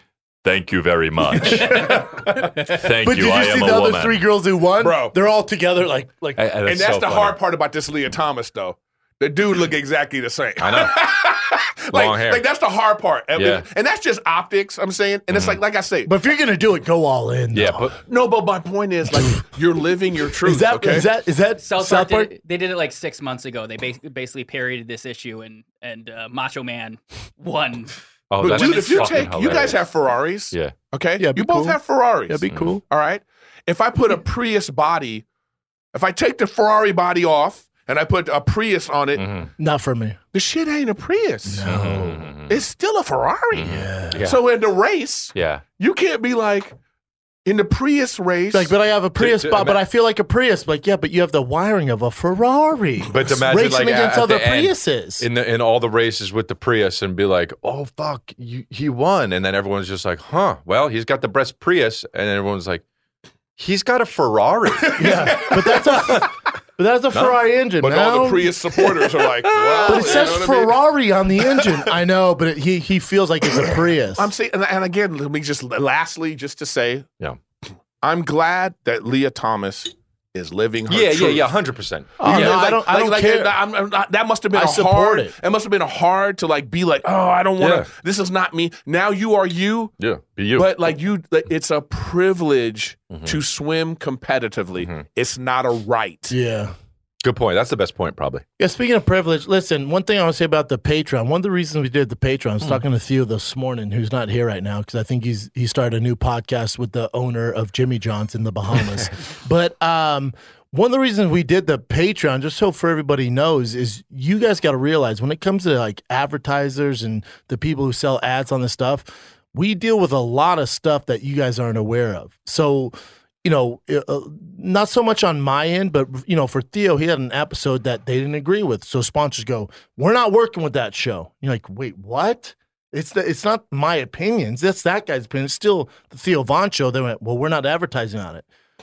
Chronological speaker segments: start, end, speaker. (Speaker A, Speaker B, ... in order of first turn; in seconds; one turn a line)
Speaker A: 0.4-4.2
Speaker B: 1.4-2.5
Speaker B: 3.0-6.4
Speaker C: 4.8-5.1
Speaker A: 6.4-7.4
Speaker C: 6.6-16.1
Speaker A: 10.6-11.0
Speaker A: 11.9-12.4
Speaker A: 13.3-13.7
Speaker A: 15.3-15.6
Speaker B: 16.1-17.9
Speaker A: 17.5-17.9
Speaker C: 18.1-21.1
Speaker B: 20.4-22.3
Speaker D: 21.6-29.3
Speaker A: 28.3-29.9
Speaker C: 28.4-35.2
Speaker B: 31.2-32.8
Speaker C: 35.9-39.2
Speaker A: 39.1-39.5
Speaker B: 39.6-40.2
Speaker C: 40.3-41.7
Speaker B: 41.5-42.3
Speaker A: 41.6-42.6
Speaker C: 42.5-46.7
Speaker A: 43.5-44.4
Speaker B: 43.6-44.3
Speaker A: 45.3-45.6
Speaker C: 47.4-48.7
Speaker B: 48.5-55.2
Speaker A: 49.2-49.8
Speaker A: 53.0-62.8
Speaker A: 63.6-65.5
Speaker B: 65.0-68.5
Speaker C: 65.0-65.3
Speaker A: 67.1-67.4
Speaker C: 67.8-70.8
Speaker A: 69.5-70.5
Speaker B: 69.8-74.3
Speaker C: 71.5-71.8
Speaker C: 73.6-77.0
Speaker C: 78.0-81.5
Speaker A: 80.9-82.6
Speaker B: 82.2-83.5
Speaker C: 82.2-89.9
Speaker B: 84.5-85.3
Speaker A: 87.6-87.9
Speaker A: 90.0-90.7
Speaker C: 90.5-96.3
Speaker A: 93.1-93.4
Speaker B: 96.3-96.7
Speaker A: 97.2-98.4
Speaker B: 98.6-138.4